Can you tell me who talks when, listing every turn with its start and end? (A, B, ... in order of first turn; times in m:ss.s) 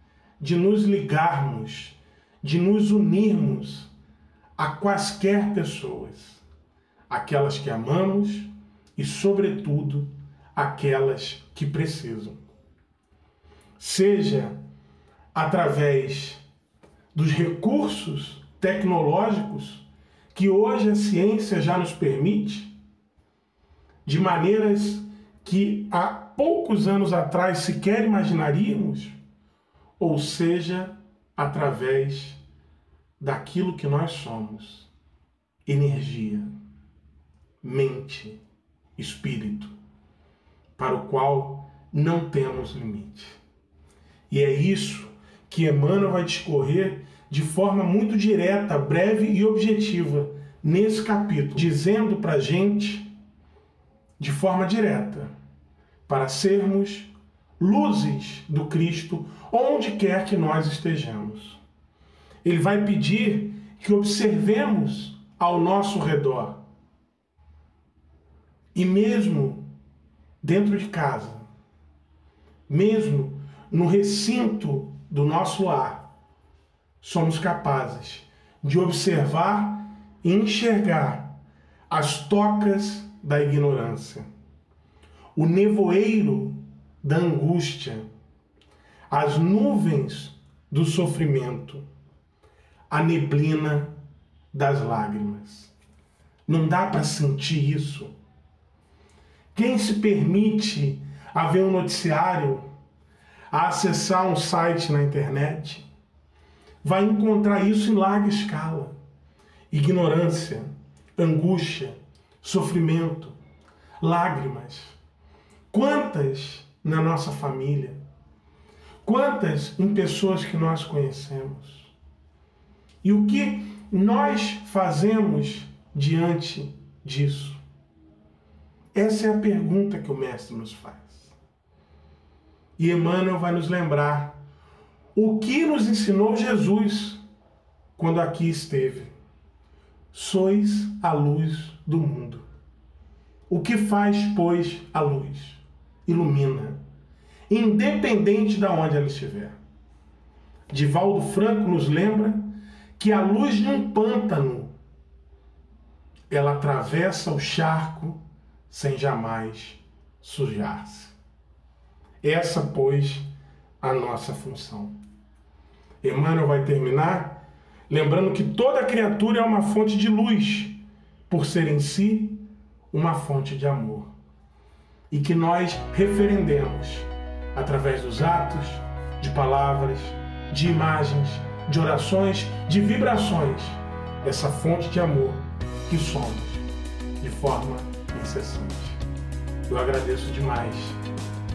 0:00.4-0:03.9 A
0:04.6-0:06.4 A
0:07.1-0:12.4 A
0:13.8-0:14.6 A
0:15.3-0:16.4 A
0:17.1-0:22.7 A
0:24.0-0:29.2 A
0:30.0-0:32.4 A
0:33.2-0:34.9 A
0:35.6-0:36.5 A
0:37.6-0:38.4 A
0:39.0-0:39.7 A
0:40.8-0:43.4 A
0:44.3-0:53.1 A
0:54.2-0:55.3 A
0:56.1-1:01.6 A
1:02.4-1:06.6 A
1:08.7-1:09.7 A
1:10.4-1:11.4 A
1:12.7-1:16.1 A
1:17.0-1:21.3 A
1:21.9-1:24.2 A
1:25.3-1:28.0 A
1:29.1-1:31.8 A
1:32.9-1:34.0 A
1:34.5-1:35.7 A
1:36.5-1:38.1 A
1:39.5-1:42.6 A
1:43.5-1:45.8 A
1:46.8-1:48.9 A
1:49.7-1:53.4 A
1:54.0-1:55.0 A
1:55.7-1:58.0 A
1:59.0-2:01.9 A
2:03.0-2:07.6 A
2:08.9-2:11.4 A
2:12.8-2:14.4 A
2:15.1-2:17.2 A
2:18.0-2:19.1 A
2:20.1-2:22.4 A
2:23.5-2:26.8 A
2:27.5-2:29.6 A
2:30.7-2:34.7 A
2:36.3-2:41.2 A
2:42.2-2:43.3 A
2:43.8-2:44.9 A
2:46.0-2:54.1 A
2:55.1-3:06.6 A
3:07.2-3:09.0 A
3:09.7-3:11.0 A